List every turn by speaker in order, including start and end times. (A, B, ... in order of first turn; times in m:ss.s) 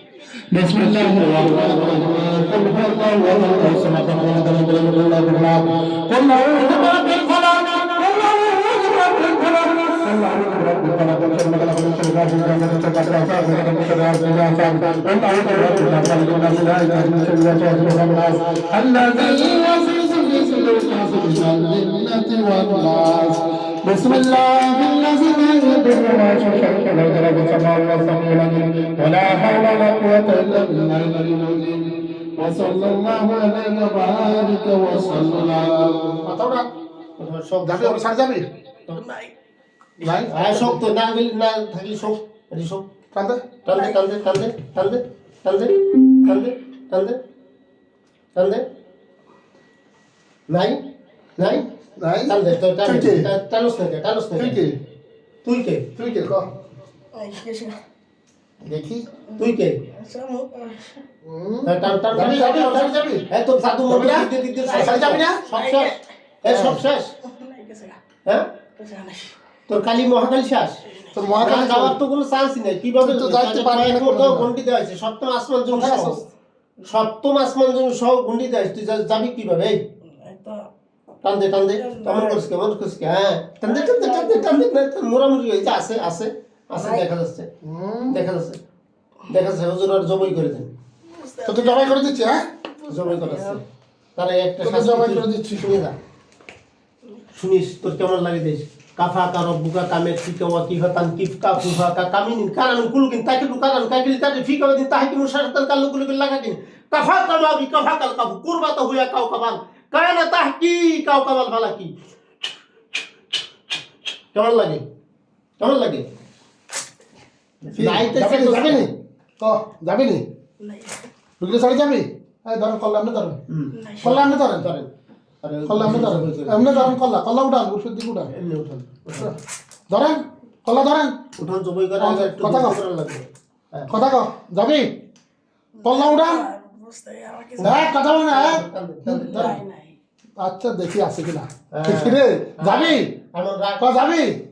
0:00.5-0:36.2 A
0:36.2-0:36.7 B
0:37.2-0:38.0 C
0:37.6-0:38.5 B
0:39.0-0:39.3 D
0:40.0-0:40.8 B
0:40.1-0:42.9 C
0:43.1-0:43.4 B
0:43.6-0:47.2 C
0:48.4-0:48.6 C
0:50.5-0:50.8 C
0:51.4-0:51.7 C
0:52.0-0:53.3 B
0:52.3-0:54.6 C
0:54.4-0:54.8 B
0:55.4-0:55.9 C
0:56.0-0:56.5 B
0:57.2-0:57.8 D
0:58.6-0:59.1 B
0:59.4-0:59.8 C
0:59.4-1:01.0 D
1:01.2-1:03.2 B
1:01.6-1:07.1 C
1:03.9-1:05.4 B
1:04.8-1:06.0 D
1:06.4-1:06.8 B
1:07.2-1:08.0 D
1:08.8-1:09.3 D
1:09.7-1:10.8 C
1:11.1-1:12.0 B
1:11.4-1:16.2 C
1:13.0-1:14.5 B
1:15.7-1:16.3 B
1:16.8-1:19.8 C
1:20.1-1:20.7 D
1:21.2-1:27.5 C
1:21.8-1:22.4 D
1:23.7-1:24.6 D
1:26.8-1:27.1 D
1:27.6-1:28.2 B
1:28.1-1:28.6 C
1:29.3-1:30.7 C
1:31.1-1:31.9 D
1:31.4-1:32.4 B
1:32.8-1:33.6 D
1:32.9-1:33.6 C
1:34.2-1:36.0 C
1:34.6-1:35.7 B
1:37.3-1:51.9 C
1:54.3-1:54.8 C
1:55.6-1:56.0 C
1:57.7-1:58.9 C
1:57.8-2:00.2 B
2:00.6-2:01.1 D
2:01.4-2:03.4 B
2:03.5-2:04.9 C
2:03.8-2:04.0 D
2:04.0-2:04.7 B
2:05.4-2:06.8 C
2:05.7-2:08.3 B
2:08.3-2:09.3 C
2:09.9-2:11.2 B
2:11.4-2:13.9 C
2:12.0-2:12.8 B
2:13.9-2:14.9 B
2:15.8-2:17.8 D
2:15.8-2:16.5 B
2:17.6-2:19.5 C
2:17.6-2:19.6 B
2:19.3-2:19.9 D
2:20.4-2:23.0 B
2:21.7-2:23.9 C
2:23.8-2:24.4 B